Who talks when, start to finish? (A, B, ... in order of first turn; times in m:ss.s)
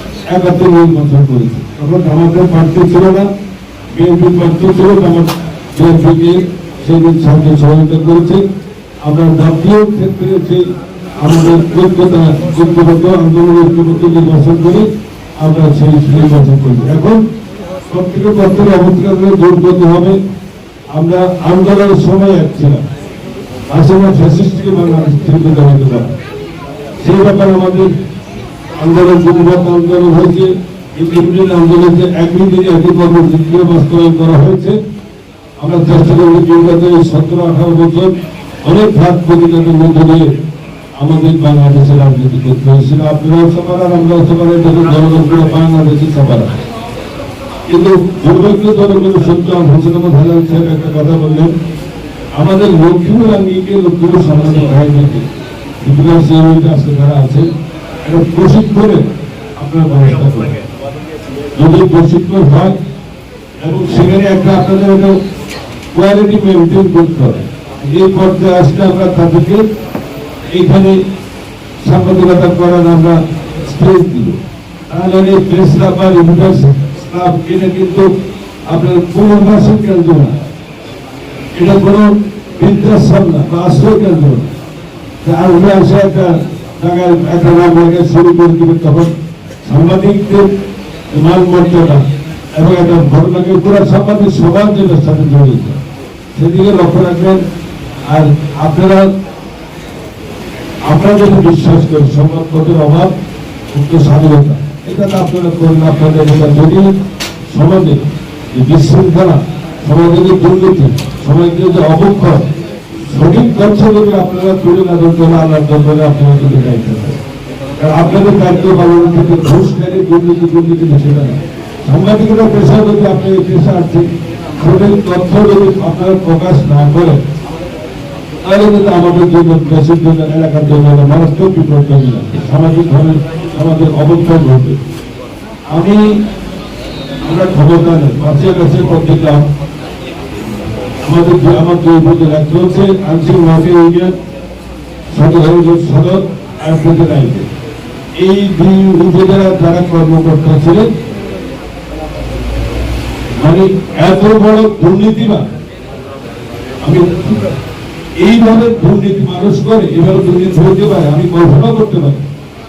0:00.3-0:03.3 A
0:03.9-0:08.4 A
0:09.0-0:10.6 A
0:11.2-0:17.2 A
0:17.9-0:20.2 A
0:20.9-0:22.8 A
0:23.7-0:26.1 A
0:27.0-0:27.9 A
0:28.8-0:34.8 A
0:35.6-0:40.3 A
0:41.0-0:46.5 A
0:47.7-0:51.5 A
0:52.3-0:55.2 A
0:55.8-0:57.5 A
0:58.0-0:59.0 A
0:59.6-1:00.6 A
1:01.5-1:02.7 A
1:03.6-1:05.1 A
1:05.9-1:09.6 A
1:10.5-1:11.0 A
1:11.8-1:18.1 A
1:18.7-1:20.4 A
1:21.5-1:24.5 A
1:25.2-1:29.1 A
1:29.6-1:30.5 A
1:31.1-1:35.8 A
1:36.3-1:37.4 A
1:38.1-1:39.1 A
1:40.8-1:43.1 A
1:43.7-1:46.9 A
1:47.5-1:52.4 A
1:53.1-1:57.2 A
1:57.8-2:07.2 A
2:08.4-2:14.8 A
2:15.7-2:16.0 A
2:17.2-2:19.4 A
2:21.0-2:24.2 A
2:25.1-2:27.5 A
2:28.2-2:30.9 A
2:33.4-2:35.4 A
2:36.8-2:37.4 A
2:38.2-2:42.2 A